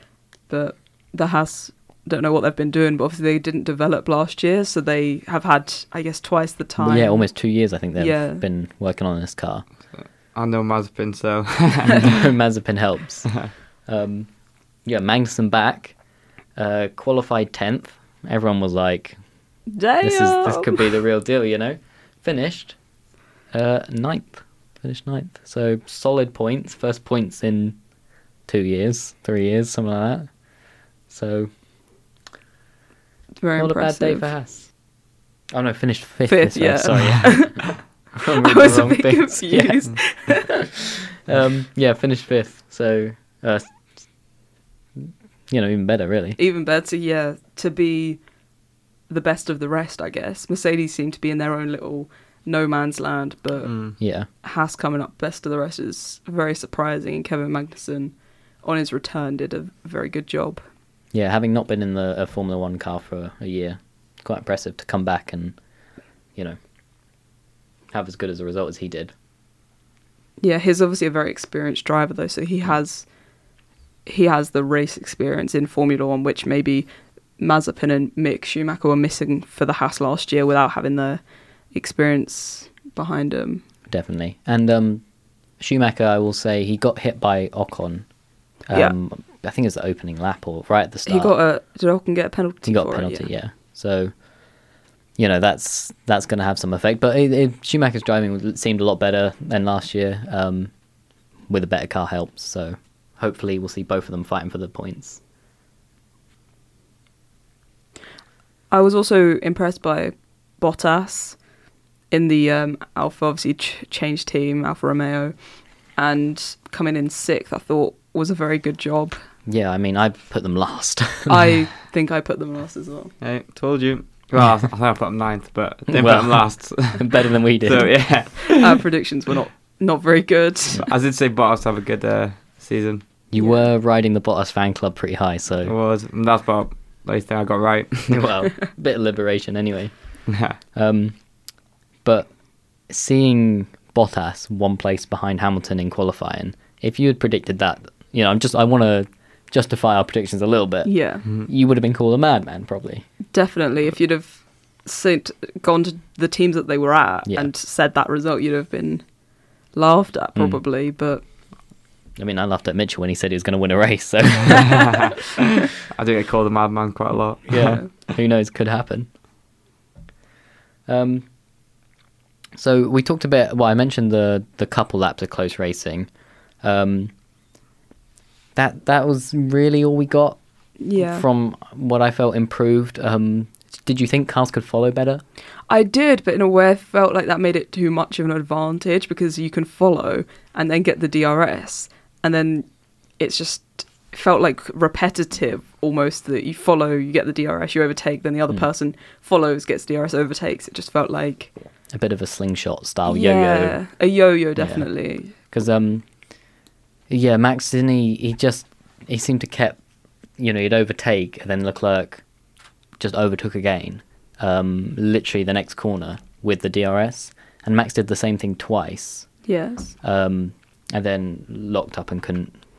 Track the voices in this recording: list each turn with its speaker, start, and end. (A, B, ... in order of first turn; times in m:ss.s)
0:00.5-0:07.3 A
0:06.8-0:09.7 B
0:08.0-0:08.5 A
0:09.9-0:12.2 C
0:12.0-0:13.4 B
0:13.9-0:14.3 B
0:14.8-0:16.0 B
0:16.6-0:19.2 B
0:19.7-0:20.8 A
0:20.0-0:22.8 B
0:23.5-0:27.8 B
0:28.5-0:30.3 B
0:31.1-0:31.5 B
0:33.4-0:34.3 A
0:33.6-0:34.7 B
0:35.5-0:44.0 B
0:36.3-0:37.6 A
0:38.4-0:40.6 A
0:45.0-0:46.4 B
0:46.4-0:48.2 A
0:49.1-0:53.7 A
0:53.6-0:54.0 C
0:54.0-0:54.3 B
0:54.4-1:00.6 A
1:01.1-1:05.6 B
1:07.9-1:09.1 B
1:10.4-1:13.1 A
1:14.1-1:16.9 A
1:17.4-1:23.6 A
1:23.9-1:25.0 B
1:25.6-1:28.1 B
1:28.7-1:31.3 B
1:31.1-1:33.3 A
1:32.6-1:34.1 B
1:35.2-1:40.7 B
1:41.5-1:45.2 B
1:48.7-1:51.4 A
1:52.1-1:55.4 A
1:56.0-1:59.2 A
1:59.5-2:01.4 B
2:01.3-2:03.1 A
2:03.2-2:08.8 C
2:05.9-2:08.0 B
2:08.6-2:10.9 A
2:10.8-2:13.0 C
2:13.3-2:15.7 B
2:13.4-2:13.6 A
2:15.6-2:18.3 C
2:18.1-2:20.0 B
2:20.3-2:20.6 C
2:20.7-2:21.2 B
2:22.0-2:22.3 B
2:22.9-2:33.0 B
2:30.8-2:31.3 A
2:33.2-2:39.0 A
2:39.7-2:41.2 A
2:40.4-2:40.6 B
2:42.2-2:45.1 B
2:44.7-2:47.8 C
2:47.5-2:49.1 B
2:50.9-2:51.3 B
2:52.6-2:56.1 B
2:56.6-2:57.1 B
2:58.6-3:00.4 B
3:00.8-3:01.2 A
3:01.0-3:05.2 B
3:05.7-3:12.7 A
3:13.2-3:21.5 A
3:21.9-3:23.8 B
3:23.1-3:25.4 A
3:24.6-3:26.0 B
3:27.1-3:29.8 B
3:30.4-3:32.2 B
3:33.0-3:39.3 B
3:39.4-3:40.0 A
3:40.0-3:42.6 B